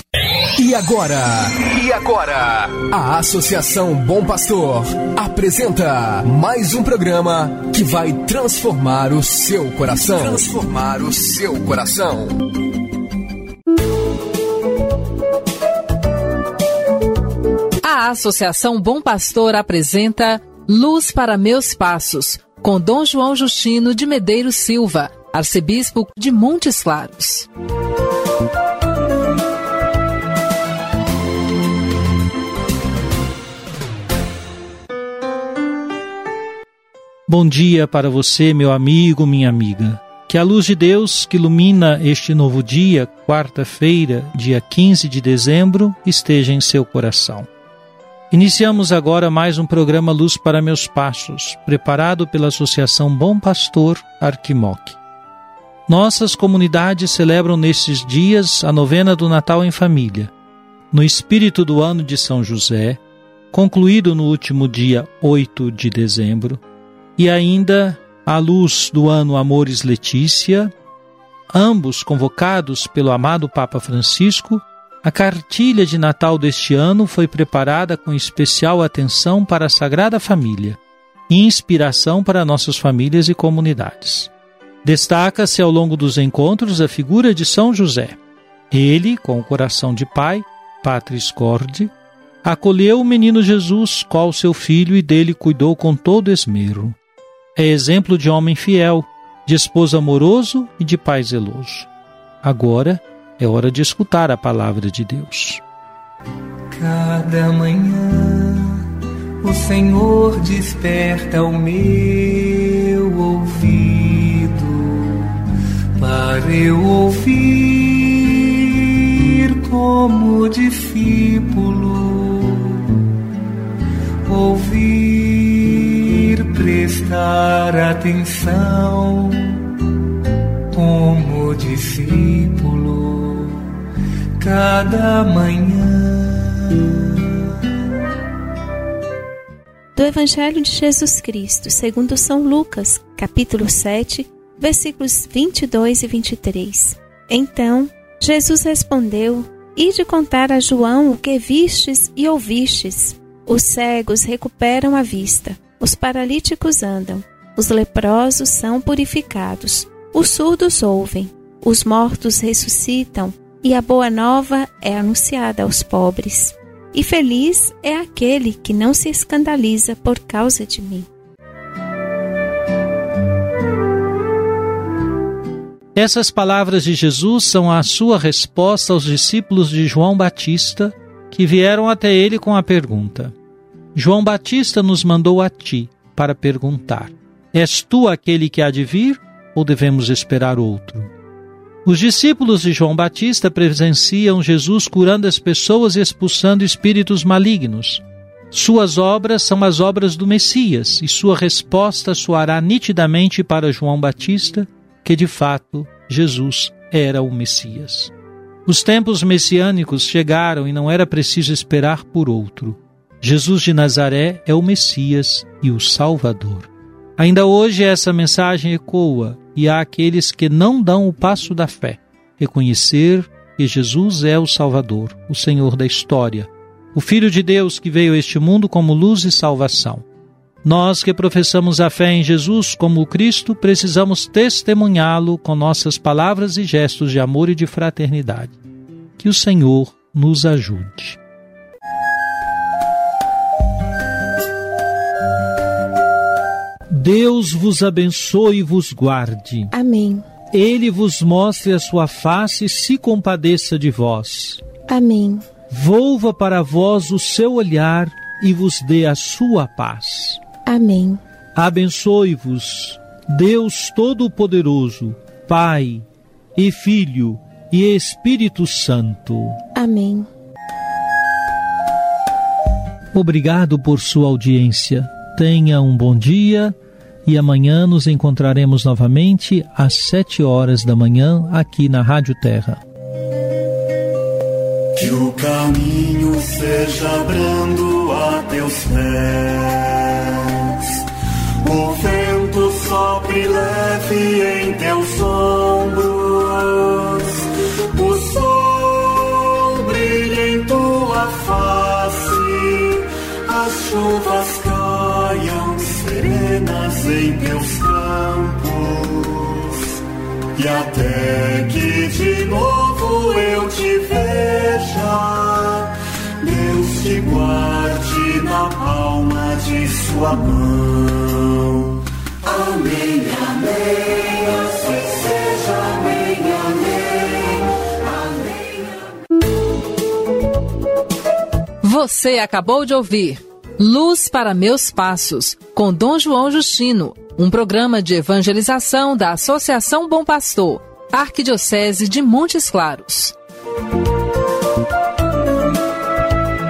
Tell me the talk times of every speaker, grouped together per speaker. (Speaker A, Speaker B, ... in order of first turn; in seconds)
Speaker A: 0.5-12.4
Speaker B: 17.8-27.5, 331.8-343.4
Speaker C: 37.3-47.5, 48.3-55.0, 55.9-60.3, 60.9-63.0, 63.5-66.6, 67.2-70.7, 71.5-84.3, 84.8-88.2, 88.7-91.9, 92.4-97.0, 97.5-101.9, 102.4-105.6, 175.9-183.3, 183.9-191.1, 191.8-208.1, 208.7-230.1, 230.6-238.6, 239.2-241.2, 246.9-249.7, 250.5-254.6, 255.7-260.4, 261.6-269.6, 273.1-282.8
Speaker D: 106.8-108.6, 109.5-115.2, 116.0-122.8, 124.2-129.6, 130.7-133.6, 134.4-136.8
Speaker E: 139.9-171.1, 249.7-250.2, 254.9-255.4, 260.7-261.2, 269.8-270.3
Speaker F: 284.9-291.0, 291.6-309.9, 310.5-327.9